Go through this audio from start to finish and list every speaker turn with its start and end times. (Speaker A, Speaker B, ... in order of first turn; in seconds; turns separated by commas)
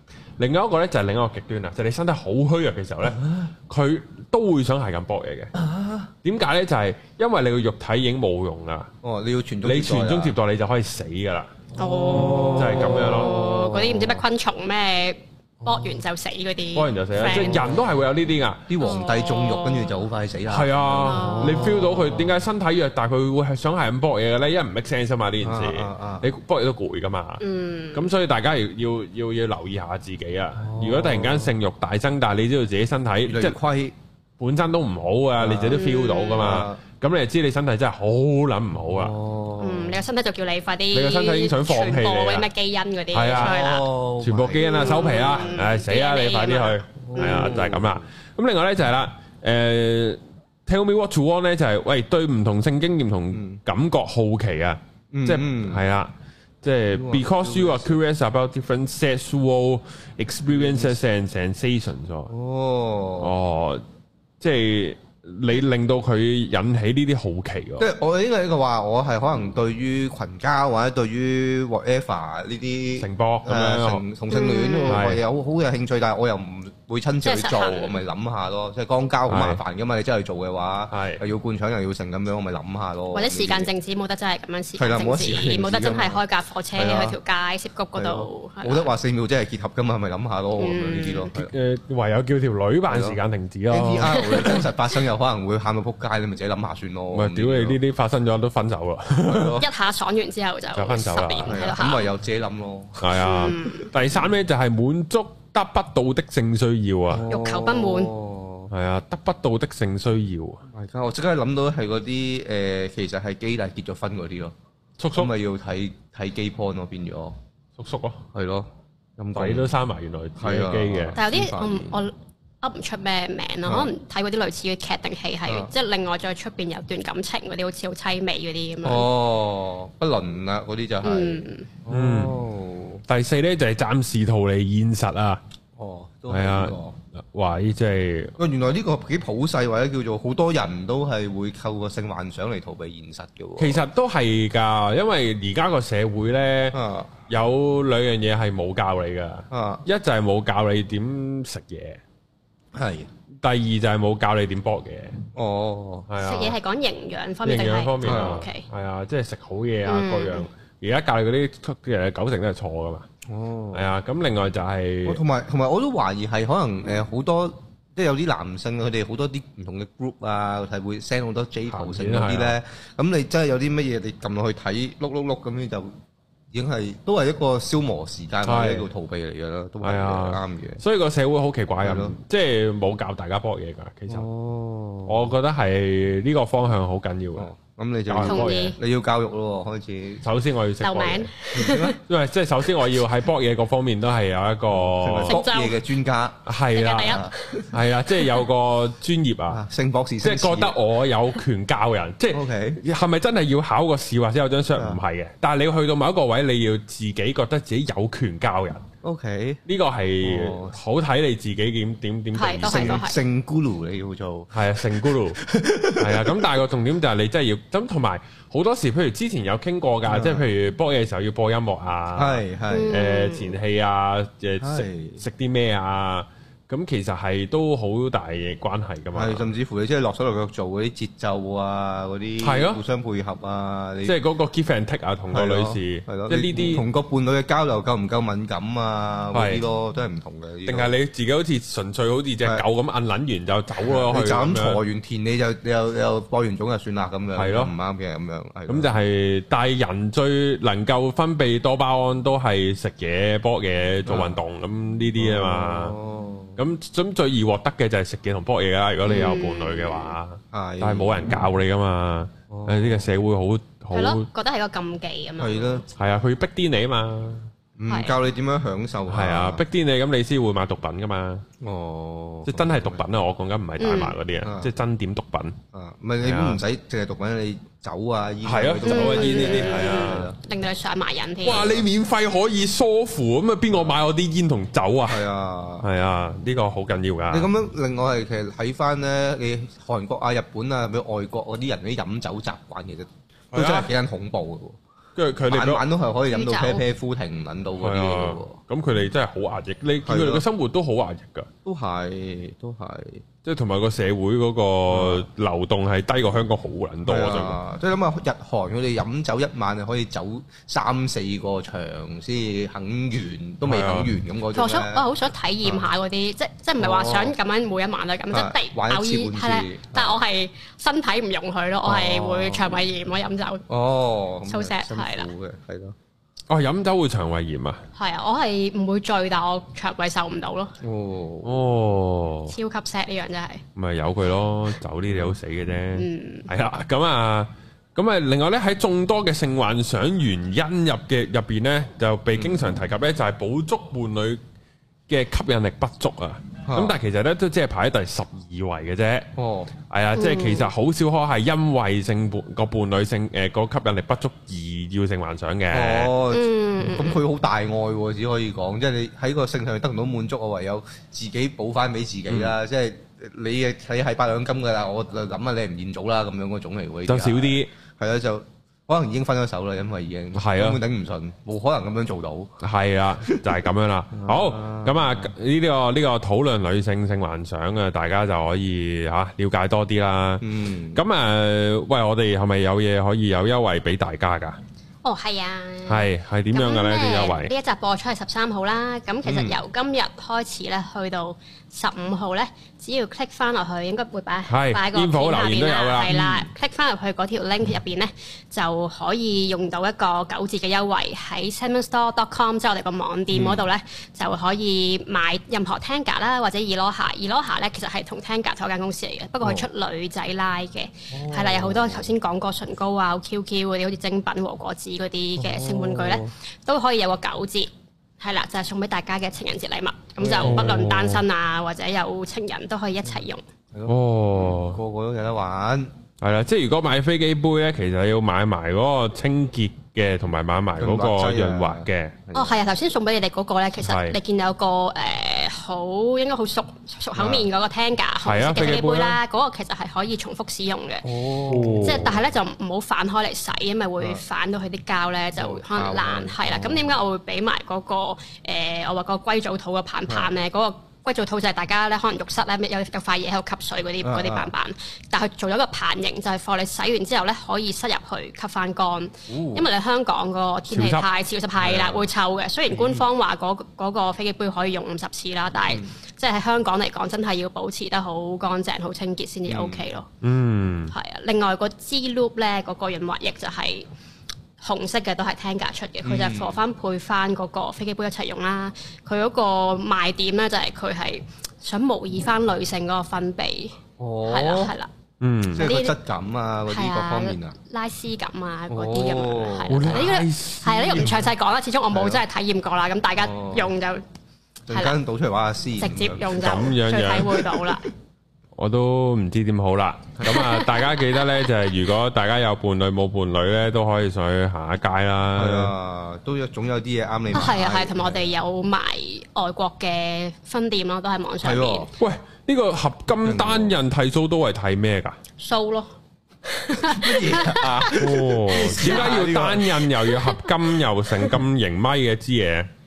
Speaker A: 0.4-5.5, Speaker B: 5.5-6.1, Speaker A: 6.2-8.9, Speaker B: 9.0-10.3, Speaker A: 9.6-11.5, Speaker C: 11.8-17.6, Speaker B: 12.1-14.2, Speaker A: 12.5-13.4, Speaker A: 16.7-18.7, Speaker B: 17.2-17.8, Speaker B: 18.7-22.3, Speaker C: 18.8-20.0, Speaker A: 20.5-33.6, Speaker C: 21.0-21.8, Speaker B: 25.4-26.3, Speaker C: 27.4-28.1, Speaker B: 30.6-31.5, Speaker B: 33.3-33.9, Speaker A: 34.4-39.1, Speaker B: 35.4-35.8, Speaker C: 35.7-36.6, Speaker B: 36.4-36.8, Speaker B: 38.9-40.0, Speaker C: 39.6-43.9, Speaker A: 40.9-42.5, Speaker A: 43.1-43.6, Speaker B: 43.3-45.6, Speaker A: 44.2-62.3, Speaker C: 44.6-47.6, Speaker B: 47.0-48.0, Speaker B: 53.3-53.6, Speaker B: 55.1-55.8, Speaker B: 56.9-58.0, Speaker B: 60.5-61.0, Speaker B: 62.3-63.3, Speaker A: 63.2-63.8, Speaker A: 64.4-67.9, Speaker B: 67.8-83.7, Speaker A: 73.0-74.0, Speaker C: 74.3-75.0, Speaker A: 74.9-75.2, Speaker C: 77.2-78.0, Speaker A: 79.3-79.6, Speaker A: 80.9-81.2, Speaker C: 83.1-88.9, Speaker B: 84.8-86.2, Speaker B: 86.8-87.2, Speaker B: 87.9-91.5, Speaker C: 90.6-91.3, Speaker A: 91.3-94.2, Speaker B: 92.9-93.2, Speaker B: 93.7-97.8, Speaker C: 94.2-94.6, Speaker A: 97.1-99.6, Speaker B: 99.3-99.7, Speaker C: 99.6-102.1, Speaker A: 100.7-101.6, Speaker B: 101.5-104.2, Speaker A: 103.0-107.2, Speaker C: 103.2-103.9, Speaker B: 107.1-108.7, Speaker C: 107.3-108.1, Speaker A: 108.7-110.6, Speaker B: 110.7-114.5, Speaker A: 115.0-115.3, Speaker B: 115.1-117.3, Speaker A: 117.8-118.2, Speaker B: 118.3-119.7, Speaker A: 119.3-121.2, Speaker B: 120.4-122.0, Speaker C: 121.2-129.1, Speaker B: 123.7-123.9, Speaker B: 128.8-133.0, Speaker C: 131.0-131.7, Speaker A: 131.9-132.4, Speaker A: 133.1-135.4, Speaker B: 135.8-136.9, Speaker A: 136.3-138.4, Speaker B: 138.4-143.8, Speaker A: 143.6-152.0, Speaker B: 146.7-147.1, Speaker B: 149.5-149.8, Speaker B: 152.7-153.1, Speaker A: 153.4-155.2, Speaker B: 155.3-156.1, Speaker A: 156.1-156.5, Speaker C: 156.2-158.7, Speaker A: 157.4-163.1, Speaker B: 158.0-158.4, Speaker C: 159.8-160.5, Speaker B: 163.2-163.9, Speaker A: 163.7-165.2, Speaker B: 165.0-175.9, Speaker A: 171.7-172.5, Speaker B: 176.5-180.8, Speaker A: 178.4-178.9, Speaker A: 179.8-184.3, Speaker B: 181.8-182.2, Speaker B: 184.1-185.3, Speaker A: 185.1-187.5, Speaker B: 187.4-190.2, Speaker A: 188.1-188.7, Speaker C: 188.2-188.8, Speaker A: 190.2-191.3, Speaker C: 190.8-192.0, Speaker B: 191.5-192.0, Speaker A: 191.9-195.4, Speaker B: 194.7-196.5, Speaker C: 195.3-195.8, Speaker A: 196.4-199.6, Speaker C: 196.7-197.6, Speaker B: 197.0-197.6, Speaker B: 199.5-200.7, Speaker A: 200.2-208.8, Speaker B: 202.3-202.8, Speaker B: 204.7-205.0, Speaker B: 209.0-209.6, Speaker A: 209.7-213.0, Speaker B: 210.2-210.7, Speaker C: 212.3-213.2, Speaker B: 212.6-214.5, Speaker A: 214.5-215.4, Speaker B: 215.0-216.4, Speaker A: 215.9-229.5, Speaker B: 220.1-220.4, Speaker B: 222.1-223.0, Speaker C: 222.7-223.6, Speaker B: 224.6-225.2, Speaker B: 229.1-234.2, Speaker A: 232.4-232.8, Speaker A: 234.0-236.8, Speaker B: 235.3-240.9, Speaker A: 239.3-239.6, Speaker A: 240.7-244.8, Speaker B: 243.8-248.9, Speaker A: 247.3-247.7, Speaker A: 248.7-255.9, Speaker B: 254.1-254.4, Speaker B: 255.2-256.6, Speaker A: 256.6-264.2, Speaker C: 259.0-260.1, Speaker B: 260.5-261.5, Speaker B: 262.5-263.1, Speaker C: 263.9-265.8, Speaker B: 265.4-265.9, Speaker A: 265.9-267.5, Speaker B: 267.8-269.6, Speaker C: 267.9-268.1, Speaker A: 269.1-271.4, Speaker B: 271.6-273.0, Speaker A: 272.4-275.6, Speaker C: 273.8-274.1, Speaker B: 274.4-274.7, Speaker B: 275.7-280.4, Speaker A: 276.2-276.6, Speaker A: 278.4-280.3, Speaker C: 278.8-281.7, Speaker A: 281.4-285.2, Speaker B: 281.5-281.9, Speaker B: 285.1-285.8, Speaker A: 285.8-287.5, Speaker B: 287.3-294.8, Speaker A: 293.5-293.9, Speaker A: 295.2-295.8, Speaker B: 295.5-298.6, Speaker C: 296.3-296.9, Speaker A: 297.8-301.5, Speaker B: 300.0-300.4, Speaker B: 301.6-303.2, Speaker A: 303.4-307.6, Speaker B: 304.9-305.2, Speaker B: 307.1-315.1, Speaker A: 313.6-314.1, Speaker C: 314.5-323.6, Speaker B: 315.6-315.9, Speaker B: 316.8-317.3, Speaker B: 318.3-320.2, Speaker B: 321.8-322.8, Speaker B: 323.7-325.9, Speaker C: 324.5-325.3, Speaker A: 326.5-327.8, Speaker C: 327.9-330.7, Speaker B: 330.8-331.6, Speaker A: 331.4-332.5, Speaker C: 332.5-333.6, Speaker A: 333.8-344.4, Speaker B: 335.1-335.4, Speaker C: 335.9-336.5, Speaker B: 342.3-342.8, Speaker A: 345.1-349.3, Speaker B: 346.7-346.9, Speaker B: 349.4-349.7, Speaker A: 349.9-356.1, Speaker C: 350.1-350.7, Speaker B: 355.7-372.6, Speaker C: 356.3-357.2, Speaker A: 362.3-362.5, Speaker A: 367.1-367.7, Speaker A: 370.3-370.8, Speaker A: 372.6-384.6, Speaker B: 373.2-373.6, Speaker B: 374.1-375.3, Speaker B: 380.4-381.0, Speaker C: 385.0-423.4, Speaker A: 385.8-387.5, Speaker B: 389.2-389.5, Speaker A: 394.5-396.5, Speaker B: 403.3-403.7, Speaker B: 409.4-409.7, Speaker B: 411.1-412.1, Speaker B: 415.4-416.3, Speaker B: 420.2-420.8, Speaker A: 420.4-421.2, Speaker B: 423.7-425.9, Speaker A: 423.9-424.8, Speaker A: 426.2-432.2, Speaker B: 430.8-432.6, Speaker C: 432.3-470.1, Speaker A: 433.8-434.2, Speaker B: 437.1-437.5, Speaker A: 438.2-439.2, Speaker B: 441.0-442.2, Speaker A: 441.4-442.2, Speaker B: 445.4-447.0, Speaker B: 454.0-454.5, Speaker B: 459.3-459.7, Speaker A: 460.7-461.1, Speaker B: 461.6-462.1, Speaker B: 462.7-463.1, Speaker B: 469.4-469.9, Speaker A: 470.2-470.9, Speaker C: 470.9-473.9, Speaker C: 474.6-484.9, Speaker B: 476.0-476.6, Speaker B: 484.0-484.7, Speaker A: 485.2-485.6, Speaker B: 485.5-487.5, Speaker C: 485.6-486.0, Speaker C: 486.7-494.0, Speaker B: 488.7-490.1, Speaker A: 489.7-491.2, Speaker B: 491.9-492.2, Speaker B: 493.2-493.7, Speaker B: 494.7-496.6, Speaker C: 494.7-495.0, Speaker C: 495.8-497.9, Speaker A: 496.3-497.4, Speaker B: 497.4-497.8, Speaker A: 498.6-505.7, Speaker C: 500.3-501.2, Speaker B: 505.4-508.3, Speaker C: 507.3-511.9, Speaker B: 511.4-511.9, Speaker A: 512.0-515.2, Speaker B: 513.2-513.8, Speaker C: 515.4-515.9, Speaker C: 516.5-519.1, Speaker B: 516.8-519.9, Speaker A: 517.6-522.7